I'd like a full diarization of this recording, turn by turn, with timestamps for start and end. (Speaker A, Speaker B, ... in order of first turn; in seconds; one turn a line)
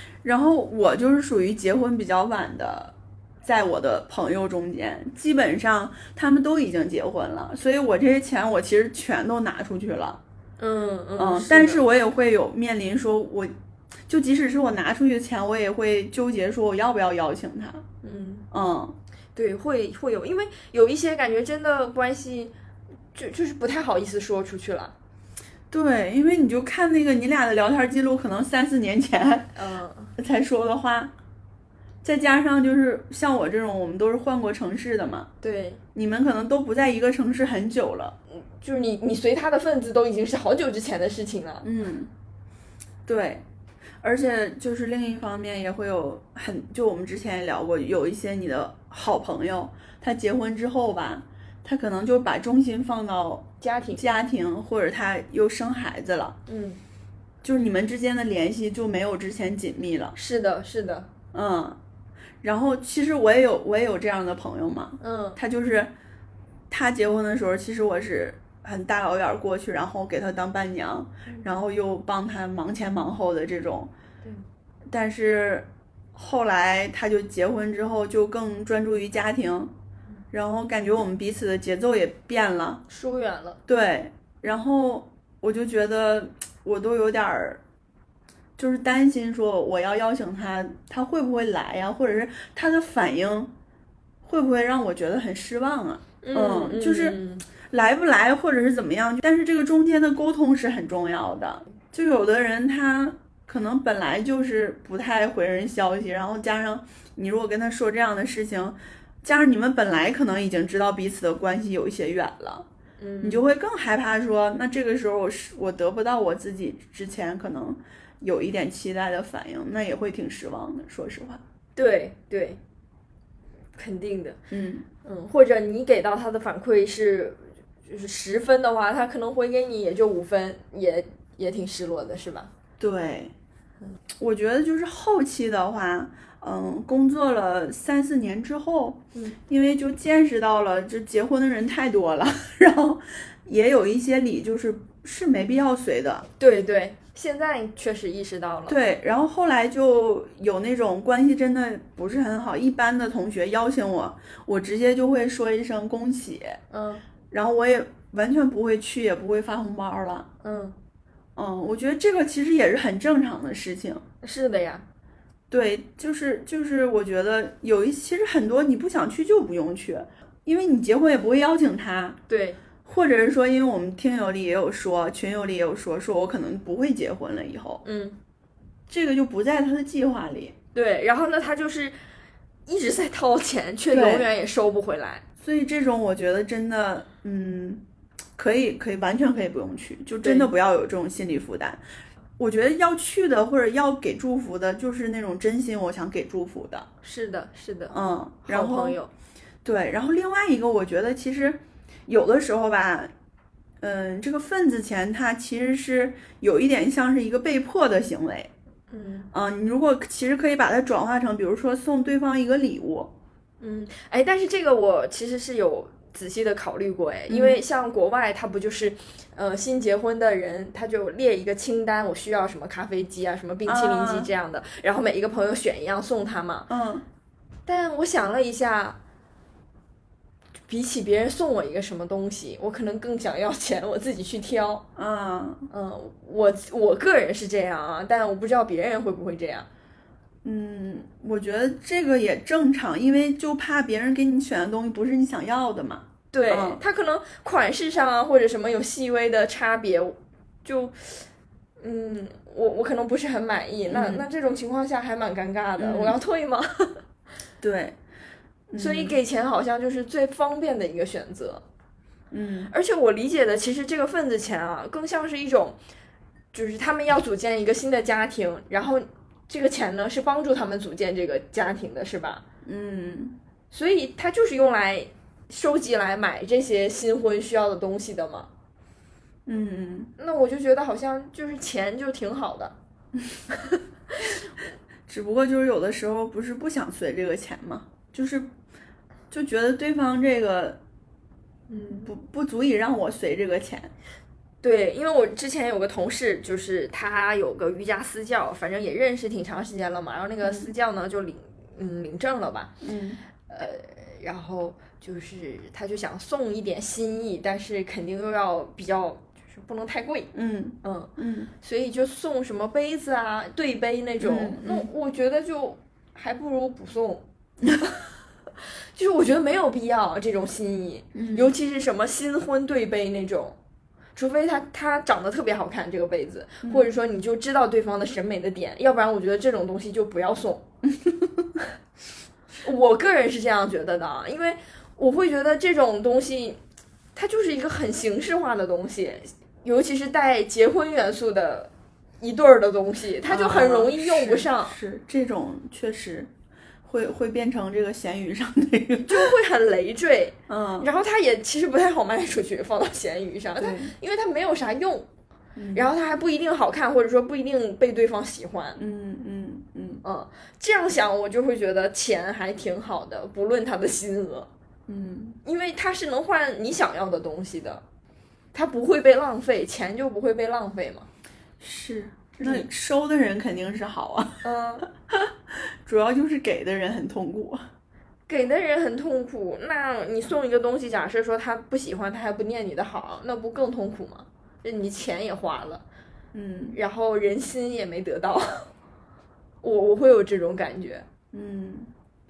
Speaker A: 0.2-10.2
Speaker B: 10.6-11.8
Speaker A: 11.2-13.5
Speaker A: 14.1-17.9
Speaker B: 18.0-18.5
Speaker A: 18.5-19.0
Speaker B: 19.4-22.5
Speaker B: 23.1-24.9
Speaker A: 25.7-29.5
Speaker B: 29.6-30.1
Speaker A: 30.2-31.1
Speaker A: 32.0-35.3
Speaker B: 35.4-35.8
Speaker A: 36.0-38.2
Speaker B: 38.3-41.7
Speaker A: 41.6-42.1
Speaker A: 43.1-43.4
Speaker A: 44.0-56.4
Speaker B: 53.6-54.0
Speaker B: 56.5-56.8
Speaker A: 57.4-60.1
Speaker B: 60.1-61.1
Speaker A: 61.3-61.8
Speaker A: 62.4-65.9
Speaker B: 65.0-65.4
Speaker A: 66.7-73.9
Speaker A: 74.9-79.7
Speaker A: 80.3-82.8
Speaker B: 82.9-83.6
Speaker A: 83.7-87.6
Speaker A: 88.6-93.5
Speaker A: 94.2-97.2
Speaker B: 96.2-97.5
Speaker A: 97.7-112.7
Speaker B: 113.0-113.4
Speaker A: 113.2-121.4
Speaker B: 121.8-122.6
Speaker B: 123.8-124.4
Speaker A: 124.5-124.9
Speaker B: 125.0-132.5
Speaker A: 132.8-133.3
Speaker A: 134.2-146.3
Speaker B: 146.4-148.8
Speaker A: 148.7-156.6
Speaker B: 156.7-157.0
Speaker A: 157.3-160.3
Speaker B: 160.4-160.8
Speaker A: 161.4-164.0
Speaker B: 164.2-164.8
Speaker A: 165.5-172.2
Speaker B: 172.3-172.6
Speaker A: 172.8-177.8
Speaker B: 177.8-178.2
Speaker A: 178.9-180.6
Speaker B: 180.8-182.0
Speaker B: 182.7-185.2
Speaker A: 183.9-184.3
Speaker A: 185.4-187.8
Speaker A: 188.4-191.8
Speaker B: 190.2-190.5
Speaker A: 192.4-196.9
Speaker B: 197.0-199.1
Speaker A: 197.9-199.0
Speaker A: 199.6-203.1
Speaker A: 203.8-208.5
Speaker B: 208.9-209.3
Speaker A: 209.3-213.1
Speaker B: 213.6-226.7
Speaker A: 217.3-217.6
Speaker A: 223.7-224.3
Speaker A: 226.7-227.1
Speaker B: 227.7-229.0
Speaker B: 230.7-234.8
Speaker A: 235.0-235.7
Speaker B: 235.7-239.7
Speaker A: 240.4-246.8
Speaker B: 246.3-251.2
Speaker B: 251.8-257.0
Speaker A: 253.9-254.2
Speaker A: 255.8-256.2
Speaker A: 257.6-258.0
Speaker A: 258.7-259.2
Speaker B: 258.8-261.6
Speaker A: 262.3-262.7
Speaker B: 262.7-265.8
Speaker B: 266.5-272.4
Speaker A: 272.6-273.4
Speaker B: 273.7-278.5
Speaker A: 279.5-280.1
Speaker B: 280.2-282.8
Speaker A: 285.1-288.5
Speaker A: 289.3-290.8
Speaker B: 291.7-292.1
Speaker A: 292.0-293.9
Speaker B: 294.6-302.7
Speaker A: 300.4-300.7
Speaker A: 302.8-303.2
Speaker B: 303.5-310.3
Speaker A: 310.3-311.5
Speaker B: 310.8-311.1
Speaker B: 311.6-317.2
Speaker A: 314.2-314.9
Speaker B: 319.0-323.6
Speaker A: 321.1-321.5
Speaker B: 324.2-330.6
Speaker A: 326.6-326.9
Speaker A: 331.0-331.4
Speaker B: 332.6-336.6
Speaker B: 337.2-344.8
Speaker A: 343.3-346.3
Speaker A: 346.8-349.3
Speaker B: 349.1-355.1
Speaker A: 350.5-350.9
Speaker A: 353.6-353.9
Speaker A: 355.6-355.9
Speaker B: 355.7-358.8
Speaker A: 358.8-360.0
Speaker B: 360.0-364.5
Speaker A: 364.9-365.4
Speaker B: 365.4-367.8
Speaker B: 368.5-371.1
Speaker A: 371.6-374.4
Speaker B: 372.4-372.7
Speaker B: 374.4-374.9
Speaker A: 375.9-377.7
Speaker B: 378.3-385.8
Speaker A: 386.3-386.8
Speaker B: 386.7-388.7
Speaker B: 389.6-391.1
Speaker A: 391.3-391.9